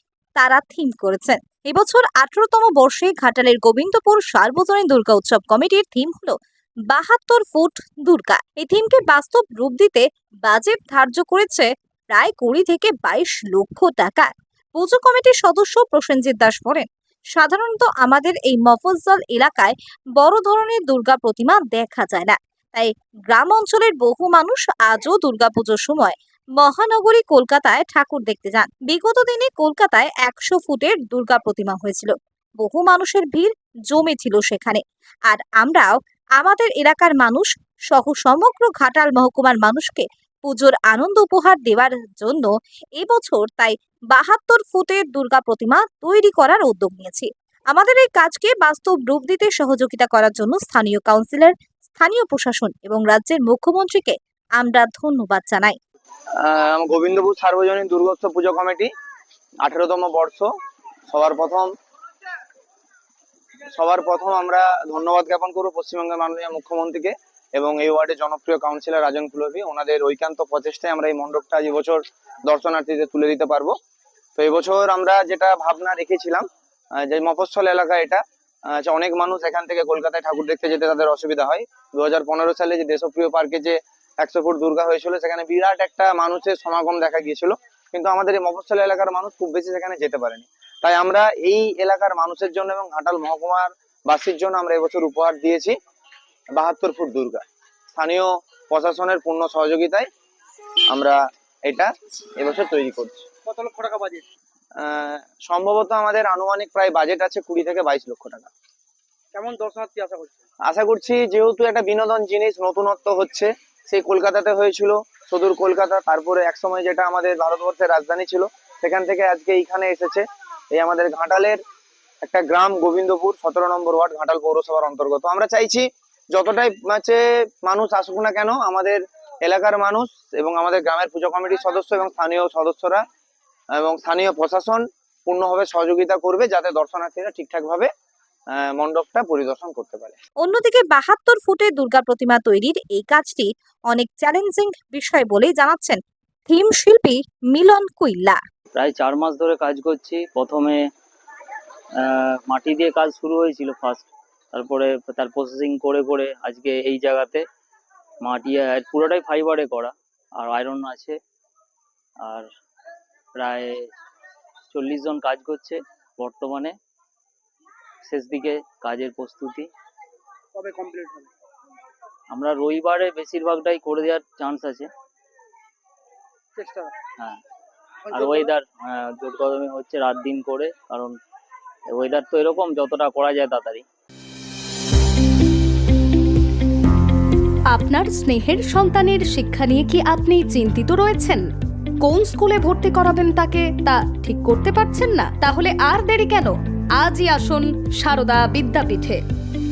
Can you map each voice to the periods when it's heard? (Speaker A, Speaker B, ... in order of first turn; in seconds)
Speaker A: 0.4-6.3, 6.9-55.8, 140.4-148.4
Speaker B: 56.4-58.9, 59.6-60.5, 61.1-61.7, 63.7-73.8, 74.4-76.5, 77.0-95.8, 96.6-100.1, 100.9-103.3, 104.8-108.5, 110.7-121.6, 122.2-133.0, 133.8-137.9, 138.5-140.2
Speaker C: 103.5-104.3, 109.3-110.4, 170.5-171.3, 176.6-176.9, 178.1-178.5
Speaker D: 148.7-150.9, 152.0-157.4, 158.2-161.2, 163.4-163.9, 164.7-166.8, 168.0-169.7, 172.3-174.9, 178.1-181.2, 181.9-183.8
Speaker E: 187.7-191.5, 192.0-199.2